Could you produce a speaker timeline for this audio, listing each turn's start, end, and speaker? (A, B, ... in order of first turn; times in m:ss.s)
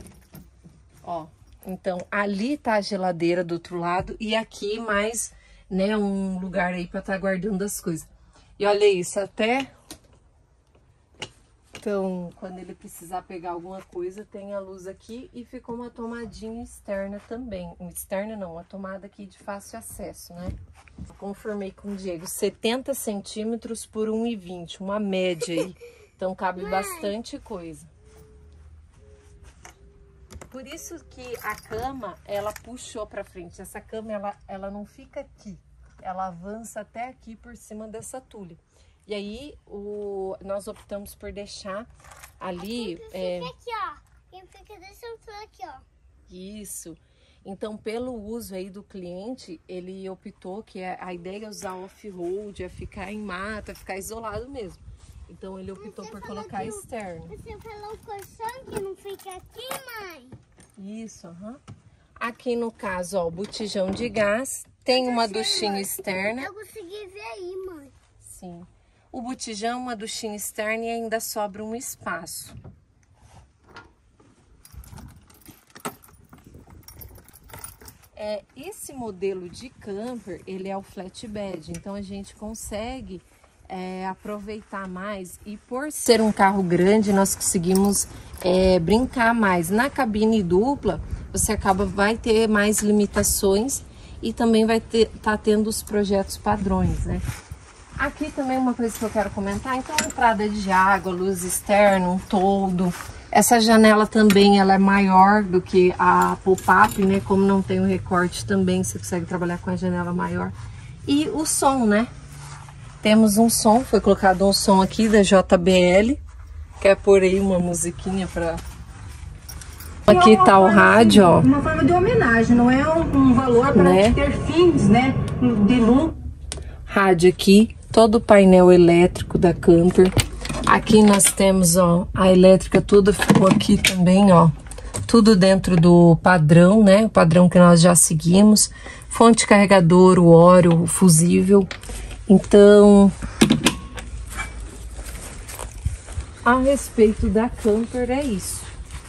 0:01.0-0:09.7 A
0:11.8-0:20.6 A
0:21.1-0:27.9 A
0:26.6-0:27.1 B
0:30.5-0:41.9 A
0:42.4-0:43.5 A
0:42.6-0:45.9 B
0:46.3-0:57.3 A
0:55.8-1:00.4 B
1:00.8-1:01.6 A
1:02.2-1:06.5 A
1:04.9-1:07.9 B
1:08.2-1:12.6 A
1:18.2-1:37.2 A
1:38.0-1:50.6 A
1:51.1-1:52.1 A
1:53.0-1:56.2 A
1:56.8-1:58.6 A
2:00.1-2:01.5 A
2:00.1-2:06.2 C
2:03.7-2:04.2 A
2:06.9-2:10.2 A
2:10.7-2:14.6 A
2:15.1-2:21.7 A
2:22.3-2:23.1 A
2:26.4-2:28.8 A